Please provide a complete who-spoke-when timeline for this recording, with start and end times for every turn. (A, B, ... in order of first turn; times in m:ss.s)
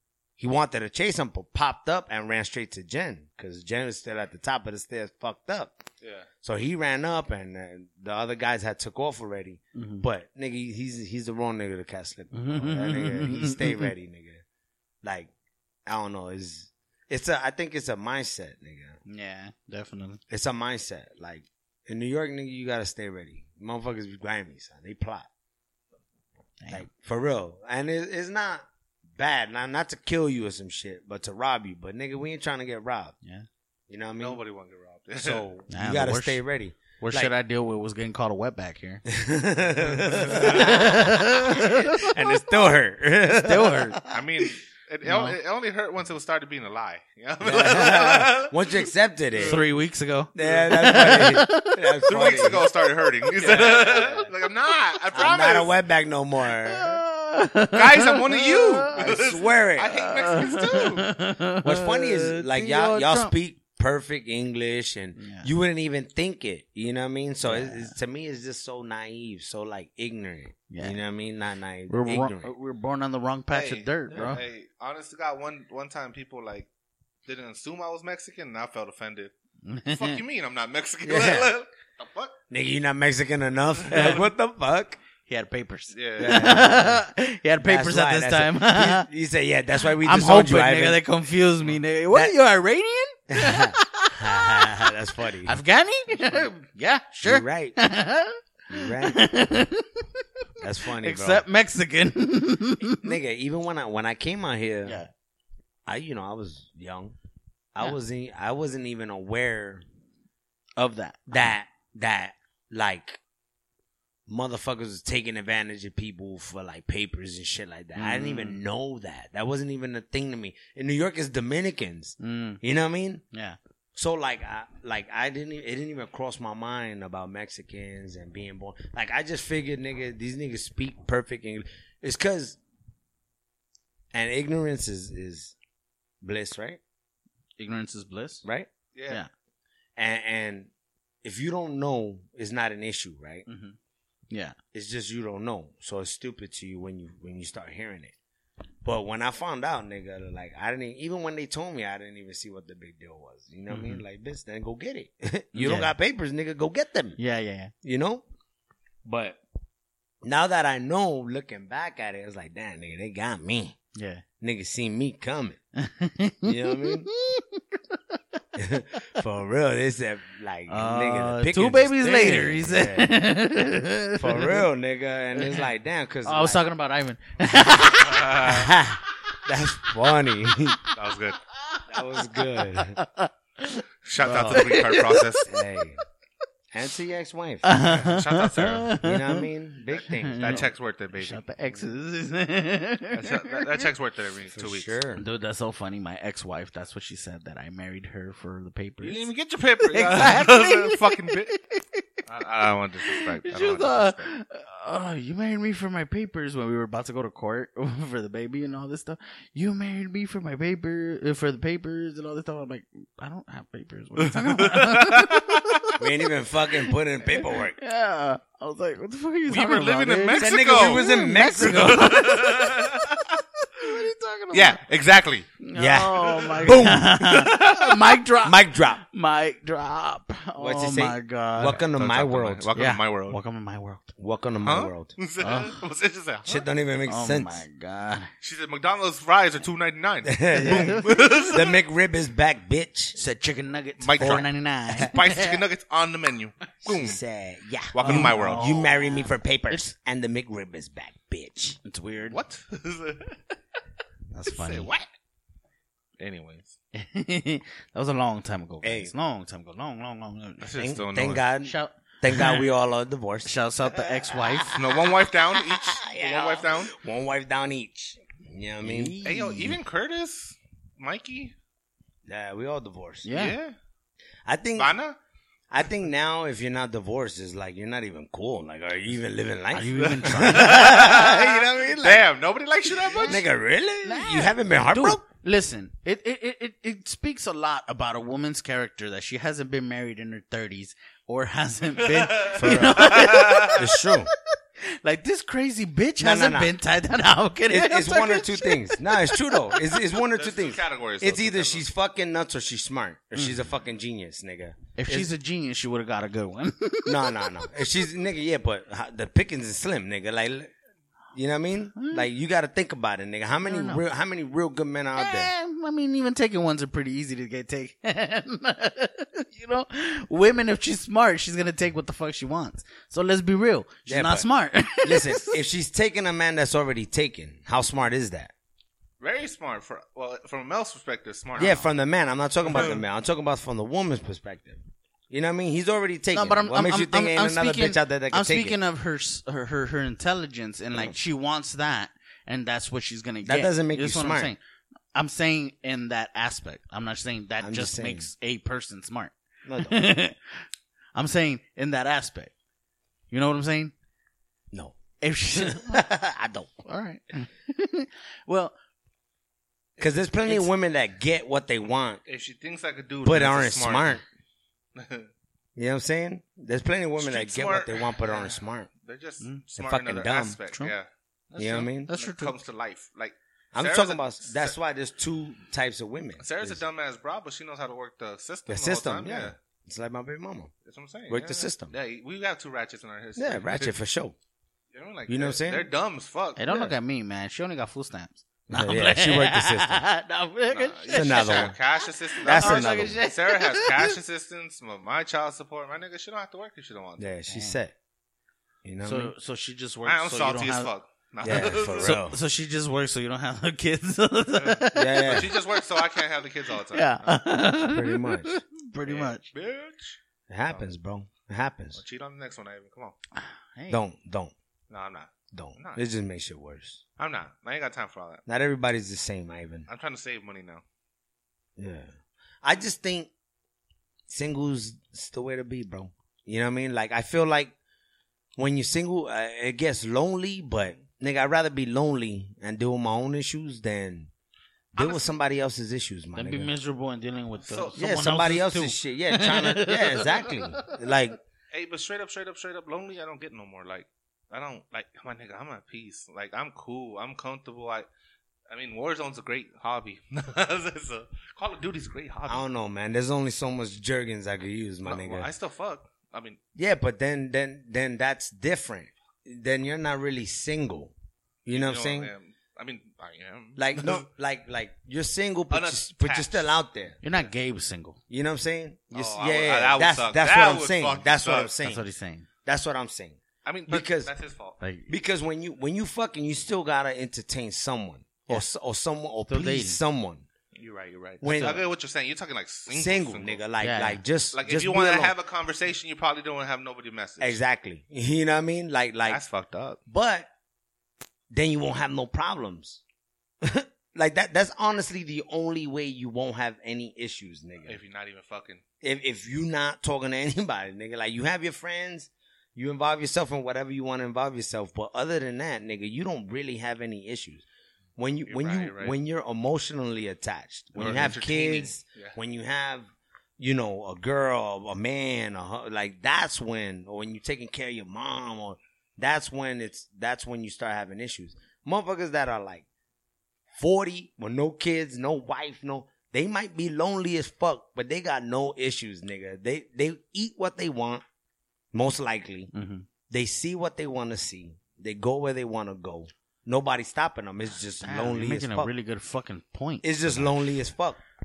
0:00.4-0:05.8 A
0:06.0-0:06.3 B
0:06.4-0:14.4 A
0:09.8-0:10.0 C
0:12.3-0:13.9 C
0:15.0-0:15.3 A
0:15.9-0:19.0 A
0:19.1-0:20.2 C
0:20.3-0:25.3 A
0:26.6-0:26.9 C
0:26.7-0:28.7 A
0:29.2-0:33.2 A
0:33.9-0:34.4 A
0:34.2-0:35.4 B
0:35.2-0:37.3 A
0:35.7-0:36.4 C
0:37.0-0:39.0 C
0:39.1-0:44.5 A
0:40.1-0:42.1 C
0:40.3-0:41.0 B
0:43.4-0:44.0 C
0:44.1-0:49.6 B
0:45.0-0:45.4 C
0:47.4-0:49.6 A
0:49.4-0:52.0 C
0:50.4-0:52.7 A
0:52.1-0:55.8 B
0:53.3-0:54.3 A
0:53.6-0:54.1 C
0:55.1-0:57.0 A
0:56.6-0:58.9 C
0:57.7-1:01.1 B
0:58.9-1:00.2 A
1:00.0-1:03.4 C
1:01.6-1:12.5 A
1:05.2-1:05.5 C
1:07.4-1:07.9 C
1:10.7-1:11.0 C
1:11.9-1:14.4 C
1:13.5-1:16.7 B
1:17.3-1:19.3 B
1:19.6-1:20.2 C
1:19.9-1:22.4 B
1:21.0-1:21.6 A
1:22.5-1:25.0 A
1:23.8-1:24.2 B
1:23.9-1:24.2 C
1:25.3-1:29.1 C
1:25.9-1:26.6 B
1:26.2-1:27.0 A
1:27.6-1:31.0 A
1:29.8-1:34.9 C
1:33.3-1:35.6 A
1:35.4-1:40.2 C
1:37.2-1:37.8 A
1:38.7-1:39.3 A
1:40.6-1:41.4 A
1:40.9-1:43.1 C
1:43.0-1:45.0 A
1:44.8-1:45.1 C
1:45.9-1:47.2 A
1:47.8-1:49.8 A
1:50.8-1:51.5 C
1:51.3-1:53.2 A
1:54.3-2:03.2 A
1:58.0-1:58.6 C
2:02.2-2:02.6 C
2:03.3-2:03.6 C
2:04.0-2:12.6 A
2:14.1-2:15.6 A
2:16.2-2:16.8 A
2:17.6-2:18.4 C
2:18.4-2:18.7 A
2:19.0-2:19.2 B
2:20.0-2:20.7 A
2:21.2-2:23.4 A
2:23.5-2:23.8 C
2:24.3-2:24.6 C
2:24.7-2:28.2 A
2:28.8-2:37.2 A
2:33.7-2:34.0 C
2:35.6-2:35.9 C
2:37.2-2:37.7 C
2:37.8-2:38.2 A
2:39.0-2:39.4 A
2:40.2-2:43.8 A
2:44.0-2:44.2 C
2:44.4-2:45.6 A
2:45.8-2:48.2 C
2:46.4-2:47.1 A
2:48.6-2:53.1 A
2:50.7-2:54.6 C
2:54.2-2:56.6 A
2:55.4-2:55.6 C
2:56.2-2:58.5 C
2:57.9-2:58.7 B
2:58.4-3:00.8 A
3:00.9-3:01.4 B
3:01.6-3:05.5 C
3:01.9-3:03.0 A
3:04.0-3:05.5 B
3:04.3-3:04.7 A
3:05.4-3:06.0 A
3:06.7-3:07.6 A
3:07.6-3:09.5 C
3:07.8-3:08.9 B
3:09.0-3:10.7 A
3:10.1-3:13.9 C
3:10.3-3:11.4 B
3:13.1-3:15.0 B
3:14.5-3:15.2 A
3:15.2-3:19.3 C
3:19.0-3:21.6 B
3:19.8-3:22.2 C
3:22.3-3:24.3 B
3:23.0-3:36.0 C
3:34.2-3:35.8 B
3:36.0-3:37.8 A
3:37.4-3:44.8 C
3:39.5-3:43.4 B
3:40.4-3:42.4 A
3:44.5-3:45.5 B
3:45.6-3:51.8 C
3:45.8-3:47.5 A
3:46.4-3:48.1 B
3:48.4-3:49.0 A
3:50.6-3:52.7 A
3:51.9-3:53.4 B
3:52.8-3:54.1 C
3:54.2-3:55.1 A
3:54.6-3:56.7 B
3:55.4-3:55.8 C
3:56.5-3:57.6 A
3:57.1-3:58.3 C
3:58.4-4:01.7 B
4:00.2-4:03.2 A
4:00.6-4:01.4 C
4:03.2-4:05.6 C
4:04.0-4:07.2 B
4:04.2-4:05.1 A
4:06.8-4:11.8 A
4:07.9-4:08.8 B
4:08.0-4:09.9 C
4:11.8-4:12.4 C
4:12.3-4:13.4 B
4:14.3-4:14.9 C
4:14.5-4:15.1 B
4:16.2-4:16.8 B
4:16.9-4:20.7 C
4:18.8-4:19.1 A
4:20.6-4:21.4 B
4:20.8-4:29.2 A
4:21.6-4:22.7 C
4:23.4-4:24.8 C
4:24.7-4:27.0 B
4:28.8-4:29.8 C
4:29.2-4:31.6 B
4:32.3-4:33.3 A
4:33.2-4:33.6 C
4:33.3-4:33.8 B
4:34.5-4:34.9 A
4:34.8-4:35.2 B
4:35.7-4:42.2 A
4:39.7-4:41.3 C
4:40.4-4:43.4 B
4:43.1-4:43.4 C
4:43.2-4:45.2 A
4:44.0-4:54.1 C
4:52.0-4:53.9 B
4:52.1-4:54.3 A
4:54.8-5:00.1 C
4:56.2-4:56.8 A
4:57.7-5:05.3 A
5:00.3-5:01.9 B
5:03.4-5:03.7 C
5:05.0-5:07.7 C
5:07.1-5:10.7 A
5:11.3-5:15.5 A
5:12.0-5:12.3 C
5:13.6-5:14.0 C
5:15.2-5:25.6 C
5:24.1-5:24.5 A
5:25.0-5:28.5 A
5:29.2-5:31.8 B
5:31.6-5:38.8 A
5:31.6-5:31.9 C
5:32.7-5:33.0 B
5:36.3-5:44.6 C
5:43.4-5:44.5 A
5:45.1-5:52.5 C
5:47.6-5:48.3 A
5:49.7-5:50.0 A
5:53.3-5:53.9 C
5:54.7-5:55.0 A
5:55.2-5:56.1 C
5:55.6-5:56.9 A
5:56.8-5:58.8 C
6:00.0-6:02.2 A
6:00.0-6:00.6 B
6:02.3-6:04.2 B
6:03.2-6:04.2 A
6:05.0-6:05.3 B
6:05.8-6:08.9 A
6:07.2-6:14.8 B
6:09.8-6:10.6 A
6:11.6-6:12.1 A
6:12.0-6:12.6 C
6:13.7-6:16.8 A
6:16.4-6:19.6 B
6:18.7-6:20.7 A
6:20.8-6:23.9 B
6:21.3-6:21.9 A
6:23.4-6:24.4 A
6:24.9-6:26.9 B
6:25.3-6:25.9 A
6:26.6-6:34.2 C
6:28.7-6:30.0 A
6:30.7-6:37.3 B
6:31.1-6:31.8 A
6:32.4-6:33.2 A
6:37.2-6:37.9 A
6:37.5-6:37.8 C
6:38.8-6:39.3 A
6:39.0-6:40.9 C
6:40.0-6:42.2 B
6:41.4-6:42.4 A
6:41.5-6:45.6 C
6:44.5-6:47.4 B
6:45.0-6:45.5 A
6:46.9-6:49.5 C
6:47.9-6:48.6 A
6:49.0-6:50.9 B
6:50.5-6:52.0 A
6:52.0-6:53.2 B
6:53.4-6:54.0 C
6:53.9-6:54.5 A
6:54.9-6:56.0 B
6:55.5-6:57.0 A
6:57.2-6:58.4 B
6:58.5-6:59.9 A
6:59.9-7:00.8 B
7:01.8-7:02.1 A
7:02.6-7:03.3 A
7:04.3-7:07.7 A
7:08.6-7:14.3 A
7:15.0-7:16.7 A
7:15.0-7:15.2 B
7:16.4-7:21.0 C
7:17.6-7:18.0 B
7:18.0-7:21.4 A
7:21.7-7:28.1 B
7:28.7-7:32.6 B
7:32.5-7:35.5 A
7:35.0-7:36.6 B
7:36.8-7:41.1 A
7:41.7-7:42.3 A
7:41.7-7:44.3 B
7:43.8-7:47.2 A
7:45.7-7:46.7 B
7:47.2-7:48.2 C
7:48.3-7:52.1 A
7:49.1-7:51.7 B
7:51.8-7:52.5 C
7:52.6-7:54.3 A
7:53.6-7:54.8 B
7:54.8-7:55.1 C
7:55.1-8:00.5 A
7:59.5-8:00.0 C
8:00.8-8:03.6 B
8:01.4-8:01.9 A
8:02.9-8:05.3 A
8:03.8-8:04.2 C
8:04.5-8:07.6 B
8:07.4-8:09.4 A
8:09.3-8:10.0 B
8:10.1-8:10.5 A
8:11.5-8:13.0 A
8:13.6-8:18.0 A
8:17.8-8:18.8 B
8:19.0-8:27.6 A
8:28.2-8:33.1 A
8:28.5-8:29.2 B
8:31.0-8:32.4 B
8:33.6-8:42.8 A
8:43.8-8:51.2 A
8:51.9-8:52.7 A
8:52.7-8:53.1 C
8:53.3-8:58.9 A
8:58.0-9:00.5 C
9:00.0-9:01.2 A